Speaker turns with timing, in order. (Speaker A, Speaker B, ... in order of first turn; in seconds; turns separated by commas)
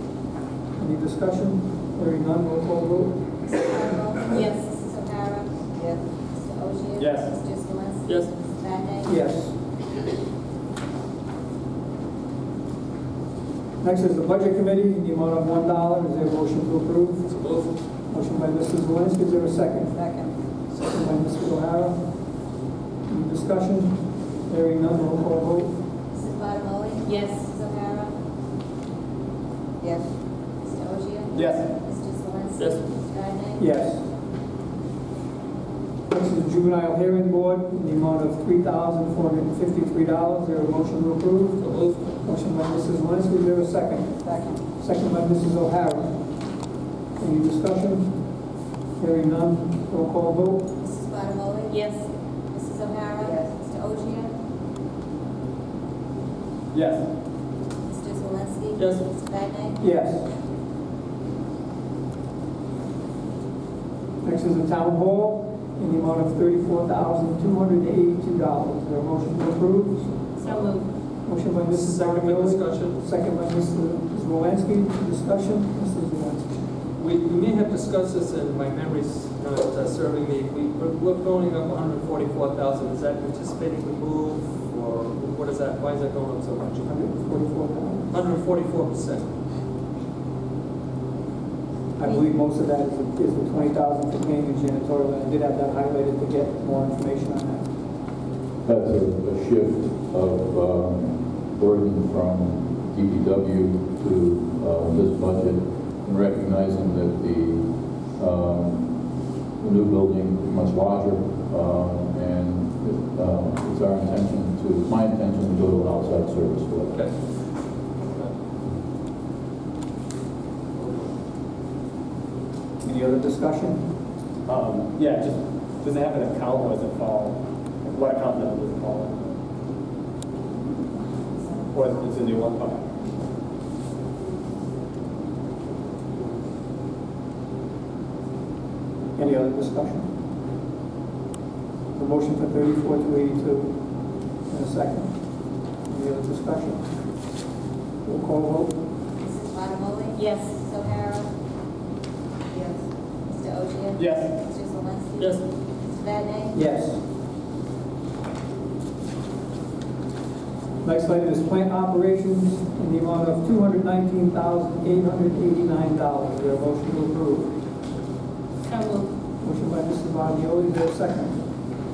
Speaker A: 0.8-3.2, Speaker B: 3.5-5.5, Speaker B: 6.3-9.1, Speaker C: 7.0-7.3, Speaker D: 8.1-8.3, Speaker A: 9.1-9.5, Speaker A: 13.8-17.3, Speaker D: 17.3-17.7, Speaker A: 18.1-22.0, Speaker A: 23.1-25.7, Speaker B: 26.1-28.1, Speaker E: 27.0-27.4, Speaker B: 30.6-33.6, Speaker C: 31.3-31.7, Speaker A: 33.6-34.0, Speaker A: 36.1-41.6, Speaker D: 41.6-42.0, Speaker A: 42.2-44.1, Speaker A: 44.7-46.1, Speaker A: 47.2-48.1, Speaker A: 49.0-50.6, Speaker B: 50.8-51.9, Speaker E: 51.7-52.0, Speaker B: 52.5-54.3, Speaker C: 56.7-57.0, Speaker B: 57.9-59.8, Speaker D: 58.8-59.0, Speaker A: 59.8-60.2, Speaker A: 64.2-70.1, Speaker E: 70.4-70.8, Speaker A: 71.2-76.6, Speaker D: 71.7-73.0, Speaker D: 77.0-87.0, Speaker A: 86.8-88.1, Speaker D: 88.1-89.3, Speaker A: 92.0-97.7, Speaker F: 98.6-117.0, Speaker D: 120.8-121.1, Speaker A: 122.8-123.8, Speaker C: 124.5-129.3, Speaker C: 131.7-132.8, Speaker A: 139.2-140.1, Speaker A: 142.0-143.8, Speaker A: 144.5-145.1, Speaker A: 145.9-146.9, Speaker A: 148.0-148.7, Speaker B: 149.2-151.3, Speaker E: 150.2-150.6, Speaker B: 153.3-156.6, Speaker C: 153.9-154.3, Speaker D: 155.2-155.4, Speaker A: 156.5-157.0, Speaker A: 160.8-167.6, Speaker E: 168.7-169.1, Speaker A: 169.4-171.4